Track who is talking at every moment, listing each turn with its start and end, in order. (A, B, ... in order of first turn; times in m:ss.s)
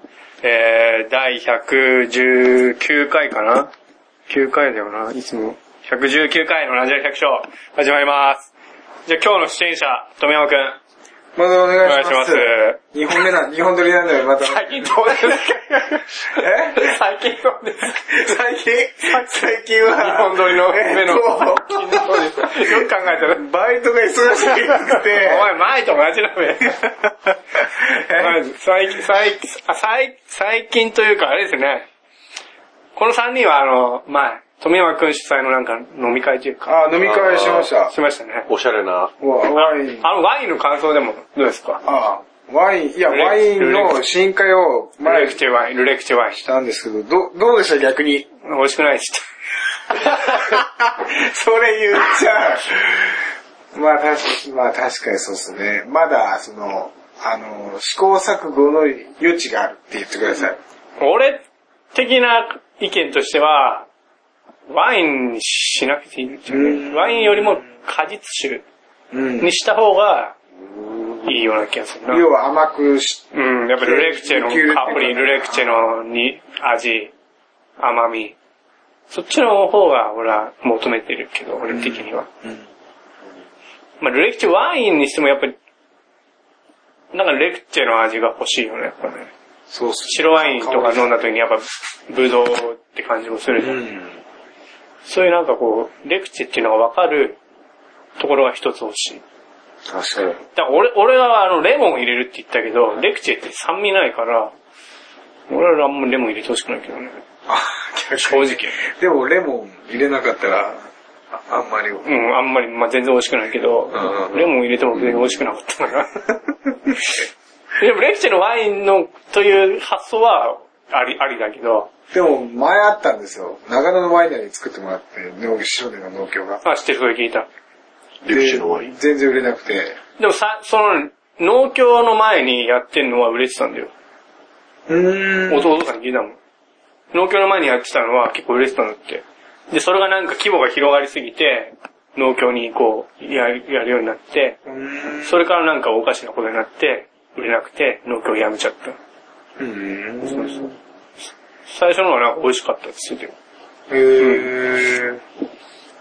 0:00.4-0:03.7 A
0:04.3-0:08.5 A
0:09.0-0:10.8 A
0:11.3-0:15.6 B
0:11.8-0:13.2 A
0:14.4-0:18.2 A
0:16.3-0:16.9 B
0:17.9-0:25.5 B
0:19.1-0:19.4 A
0:19.9-0:23.4 A
0:25.1-0:26.7 A
0:26.7-0:28.4 B
0:28.2-0:31.9 A
0:33.0-0:36.8 A
0:36.6-0:37.9 B
0:37.0-0:37.7 C
0:37.9-0:38.5 A
0:38.5-0:39.1 C
0:39.2-0:40.0 B
0:39.5-0:41.8 A
0:41.8-0:45.4 B
0:43.1-0:44.0 A
0:45.0-0:46.4 A
0:46.4-0:48.3 B
0:48.4-0:49.2 A
0:49.9-1:00.6 B
1:01.0-1:01.4 A
1:01.9-1:03.9 A
1:04.7-1:08.6 A
1:06.5-1:07.5 B
1:09.1-1:09.5 B
1:09.4-1:10.4 A
1:10.6-1:11.3 C
1:11.2-1:12.2 A
1:12.1-1:15.8 B
1:13.3-1:17.1 A
1:17.8-1:18.4 A
1:19.1-1:22.3 A
1:21.7-1:22.7 B
1:24.0-1:25.5 A
1:27.1-1:29.3 A
1:29.7-1:31.2 B
1:30.1-1:33.8 A
1:33.6-1:34.2 B
1:35.0-1:37.4 A
1:38.2-1:39.2 A
1:39.9-1:40.4 B
1:40.5-1:44.5 A
1:45.5-1:47.2 A
1:47.5-1:52.1 B
1:48.2-1:48.8 A
1:52.0-1:56.2 A
1:53.9-1:54.4 B
1:55.0-1:55.3 C
1:57.8-2:01.9 A
2:02.1-2:06.6 B
2:06.6-2:07.5 A
2:08.2-2:08.9 C
2:08.3-2:10.0 B
2:10.2-2:13.9 A
2:14.9-2:15.8 B
2:15.5-2:16.4 A
2:17.1-2:24.6 A
2:24.6-2:25.4 B
2:25.2-2:29.0 A
2:29.6-2:30.7 B
2:30.2-2:30.7 A
2:31.7-2:33.3 A
2:33.9-2:35.2 B
2:34.2-2:34.4 A